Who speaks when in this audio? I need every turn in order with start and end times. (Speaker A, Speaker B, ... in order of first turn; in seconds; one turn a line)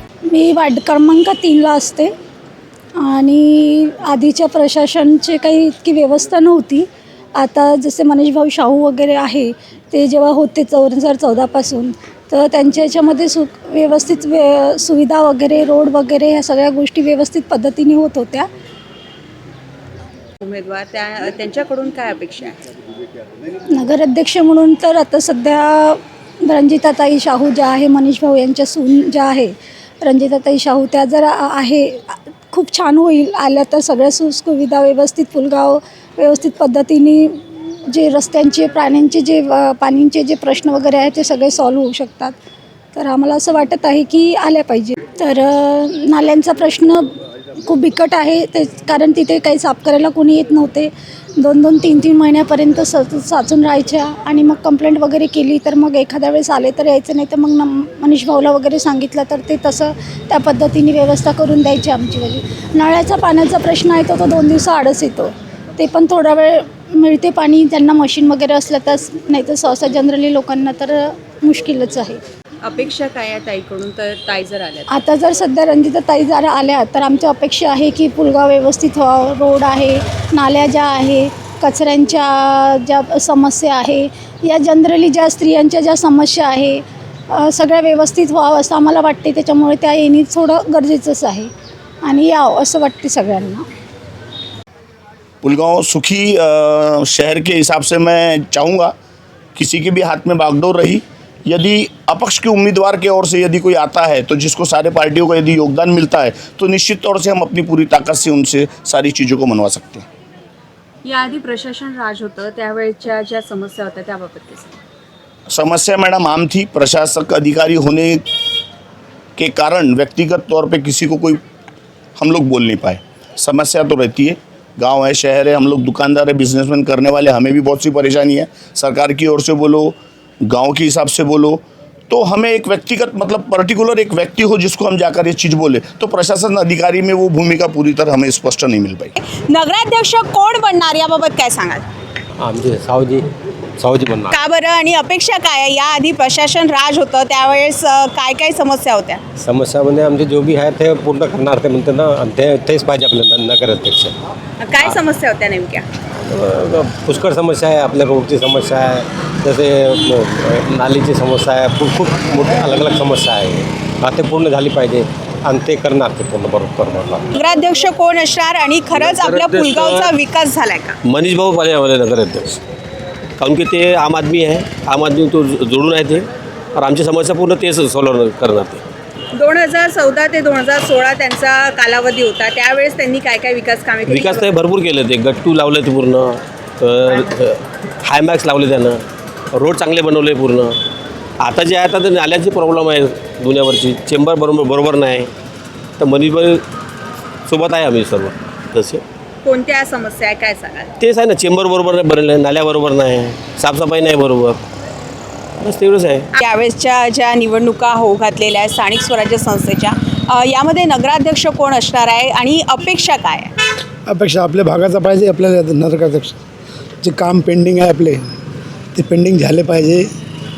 Speaker A: 0.3-2.1
Speaker A: 3.0-18.5
Speaker B: 20.4-22.6
Speaker A: 23.7-42.4
Speaker A: 42.9-72.2
Speaker B: 72.6-74.9
Speaker A: 74.9-91.5
Speaker A: 92.0-93.7
Speaker C: 95.4-98.9
Speaker C: 99.6-110.1
Speaker B: 111.0-114.8
Speaker C: 115.5-118.2
Speaker C: 119.4-121.4
Speaker C: 122.2-130.0
Speaker C: 130.5-139.1
Speaker B: 139.2-141.9
Speaker D: 142.4-143.3
Speaker D: 143.8-144.3
Speaker B: 144.3-149.2
Speaker D: 149.4-154.1
Speaker B: 154.6-155.8
Speaker D: 156.3-167.2
Speaker B: 167.3-170.9
Speaker E: 169.0-170.1
Speaker E: 171.1-172.6
Speaker E: 173.4-178.8
Speaker B: 179.3-184.6
Speaker E: 184.1-190.8
Speaker E: 191.4-195.3
Speaker E: 196.0-196.6
Speaker E: 197.5-199.0
Speaker B: 199.4-200.9
Speaker E: 201.0-204.6
Speaker E: 205.6-206.3
Speaker B: 206.3-213.5
Speaker F: 214.1-216.4
Speaker F: 217.0-218.2
Speaker F: 218.9-220.1